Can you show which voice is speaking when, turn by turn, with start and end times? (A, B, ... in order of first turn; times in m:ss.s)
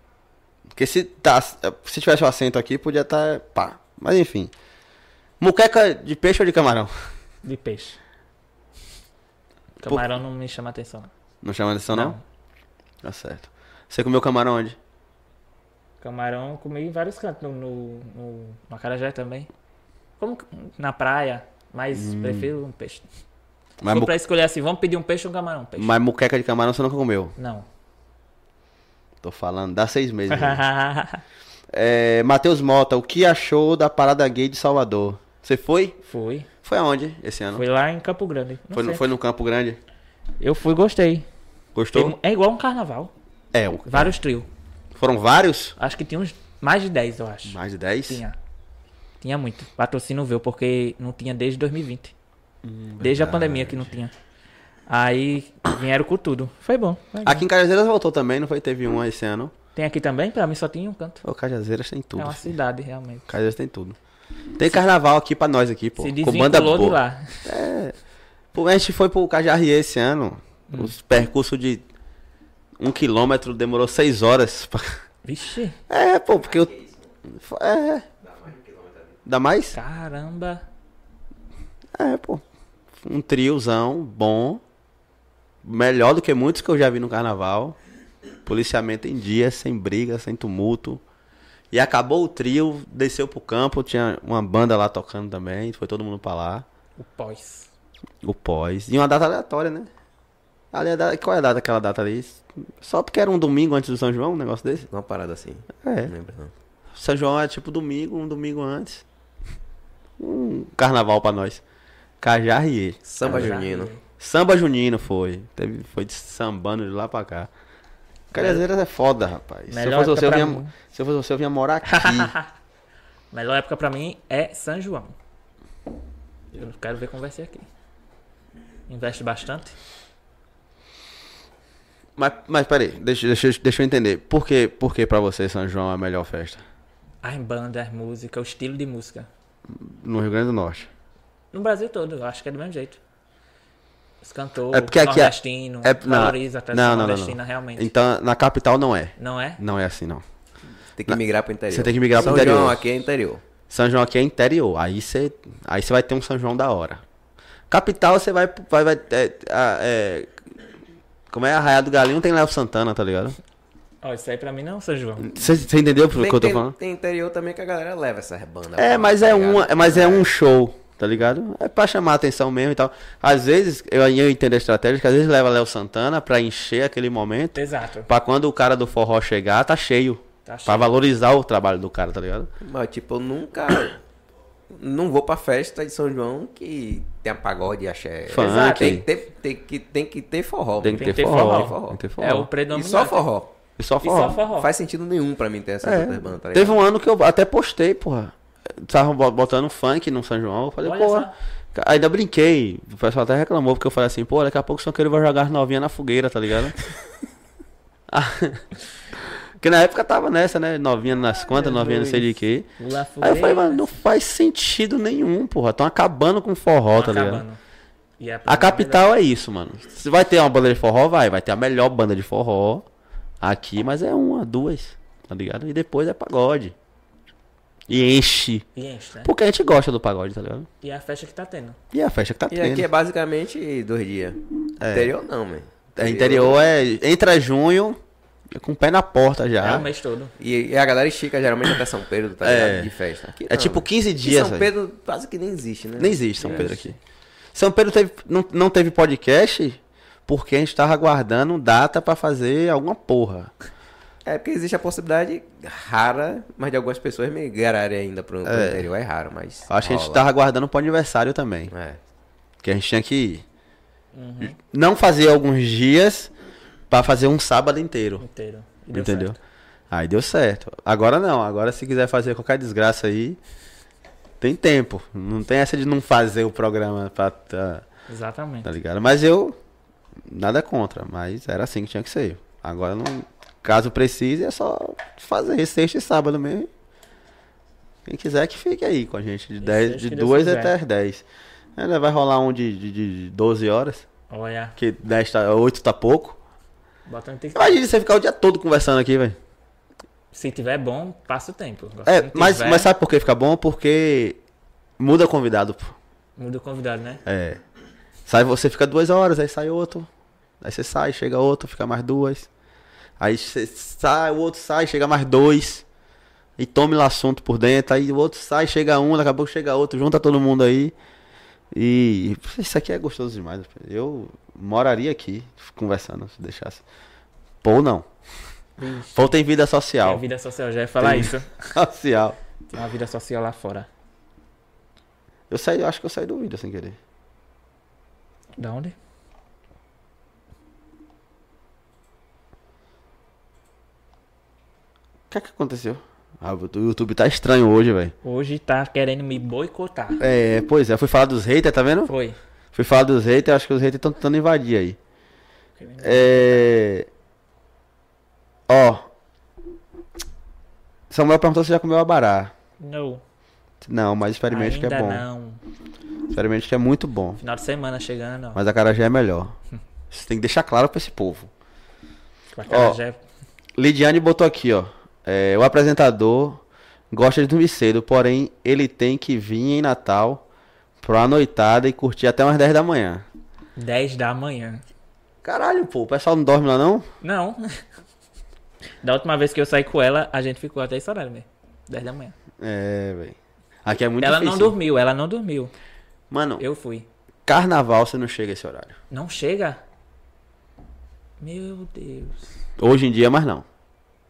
0:00.7-0:04.5 A
0:05.4-0:06.9 A
0:07.4-0:08.0 B
0:09.8-0:11.1 B
0:11.4-0:12.2 A
0:11.9-0:12.2 B
0:13.0-0:14.8 A
0:16.0-0:19.5 B
0:20.2-0:23.0 B
0:21.9-0:22.5 A
0:23.8-0:24.1 A
0:23.9-0:25.9 B
0:25.8-0:27.3 A
0:27.4-0:27.7 B
0:29.2-0:30.6 A
0:30.3-0:31.2 B
0:31.7-0:36.0 A
0:36.0-0:36.5 B
0:36.6-0:37.6 A
0:37.5-0:39.0 B
0:38.7-0:39.8 A
0:40.4-0:41.3 B
0:41.7-0:42.2 A
0:41.9-0:43.1 B
0:43.5-0:44.2 A
0:43.9-0:44.5 B
0:44.9-0:45.8 A
0:45.8-0:48.4 B
0:47.5-0:48.2 A
0:49.2-0:52.1 B
0:52.6-0:53.9 A
0:53.0-0:54.1 B
0:54.9-0:57.4 B
0:57.2-0:59.5 A
0:59.8-1:01.2 B
1:01.2-1:02.5 A
1:02.2-1:03.3 B
1:03.3-1:04.0 A
1:04.6-1:07.9 A
1:06.0-1:07.5 B
1:08.5-1:11.8 A
1:10.7-1:10.9 B
1:12.8-1:15.0 A
1:15.2-1:15.8 B
1:15.9-1:16.7 A
1:16.4-1:17.1 C
1:17.3-1:18.0 A
1:18.2-1:19.2 C
1:19.2-1:19.8 A
1:19.7-1:20.6 B
1:21.9-1:22.4 A
1:23.0-1:24.6 A
1:25.6-1:27.8 A
1:28.4-1:31.0 A
1:31.7-1:36.6 A
1:37.0-1:37.7 B
1:38.2-1:39.9 A
1:40.7-1:44.9 A
1:44.9-1:46.5 C
1:45.8-1:46.1 A
1:46.9-1:49.0 A
1:50.2-1:51.6 A
1:52.2-1:53.6 A
1:53.0-1:53.9 C
1:53.2-1:54.0 B
1:54.2-1:57.5 A
1:58.3-1:58.6 B
1:58.3-2:02.3 A
1:59.7-2:00.7 B
2:01.8-2:02.5 B
2:03.3-2:05.1 B
2:06.5-2:07.7 B
2:08.9-2:09.7 B
2:12.2-2:16.6 A
2:17.2-2:19.3 B
2:19.7-2:20.9 A
2:21.5-2:23.0 B
2:24.2-2:27.9 B
2:24.7-2:30.2 A
2:29.2-2:29.6 B
2:31.0-2:33.4 C
2:31.7-2:32.8 A
2:33.7-2:37.0 A
2:37.7-2:40.3 A
2:41.3-2:43.4 A
2:44.0-2:45.4 B
2:45.2-2:46.7 A
2:46.1-2:50.3 C
2:48.8-3:02.5 A
2:57.5-2:58.1 B
3:00.4-3:01.0 B
3:02.6-3:04.0 C
3:04.7-3:12.0 C
3:08.3-3:09.0 A
3:08.4-3:09.0 B
3:10.8-3:12.5 A
3:10.9-3:13.2 B
3:12.7-3:13.5 C
3:13.8-3:14.4 A
3:14.0-3:14.7 B
3:14.5-3:16.8 C
3:15.8-3:26.8 A
3:20.8-3:21.3 B
3:28.1-3:28.6 A
3:29.2-3:37.4 A
3:31.5-3:32.2 B
3:32.8-3:33.9 B
3:36.9-3:37.6 B
3:38.2-3:39.1 B
3:38.5-3:42.8 A
3:43.4-3:46.7 A
3:47.9-3:48.6 A
3:48.7-3:49.3 B
3:49.2-3:50.7 A
3:50.8-3:51.8 B
3:51.9-3:52.9 A
3:52.5-3:56.7 C
3:54.8-3:55.1 A
3:56.0-3:58.0 A
3:58.5-3:59.8 A
3:59.6-4:00.3 B
4:00.4-4:06.7 C
4:02.4-4:02.9 A
4:03.5-4:04.7 A
4:06.0-4:06.9 A
4:06.4-4:06.9 B
4:07.5-4:13.5 A
4:14.2-4:20.2 C
4:18.4-4:18.9 A
4:19.7-4:21.7 A
4:21.7-4:22.0 C
4:22.6-4:23.4 A
4:24.1-4:24.6 B
4:24.4-4:26.3 A
4:26.9-4:28.2 A
4:28.2-4:29.4 B
4:28.9-4:29.4 A
4:29.9-4:33.4 A
4:34.4-4:37.8 A
4:38.1-4:38.7 B
4:38.6-4:39.6 A
4:40.2-4:46.7 A
4:48.0-4:51.2 A
4:49.6-4:50.7 B
4:51.8-4:54.0 A
4:54.3-4:54.8 B
4:54.8-4:56.4 A
4:57.1-4:57.8 B
4:57.5-4:59.4 A
5:00.3-5:02.9 B
5:02.1-5:04.4 A
5:05.0-5:05.9 A
5:06.4-5:07.2 B
5:07.2-5:07.6 A
5:08.3-5:10.1 A
5:10.6-5:12.5 A
5:13.2-5:15.8 A
5:16.6-5:20.9 A
5:21.7-5:26.8 A
5:27.6-5:28.1 A
5:28.8-5:29.3 B
5:29.1-5:30.2 A
5:30.0-5:31.7 B
5:31.0-5:32.4 A
5:32.7-5:33.9 B
5:35.5-5:37.0 A
5:38.6-5:39.0 B
5:45.3-5:48.1 A
5:48.2-5:50.2 B
5:50.2-5:52.1 A
5:52.1-5:52.4 B
5:52.7-5:55.0 A
5:55.8-5:56.7 B
5:56.0-5:57.1 A
5:58.7-5:59.1 A
6:01.1-6:02.5 A
6:02.8-6:03.2 B
6:03.8-6:05.2 A
6:04.5-6:05.6 B
6:06.3-6:07.4 A
6:07.4-6:08.6 B
6:08.6-6:09.5 A
6:10.1-6:11.5 A
6:12.5-6:13.2 B
6:12.7-6:13.0 A
6:13.8-6:20.4 A
6:21.0-6:23.2 A
6:23.8-6:24.8 B
6:25.4-6:27.0 A
6:27.2-6:27.6 B
6:29.0-6:32.3 B
6:32.6-6:34.8 A
6:34.2-6:35.7 B
6:36.3-6:36.6 A
6:36.6-6:37.1 B
6:37.4-6:39.0 A
6:39.1-6:39.8 B
6:41.4-6:42.5 B
6:42.8-6:43.6 A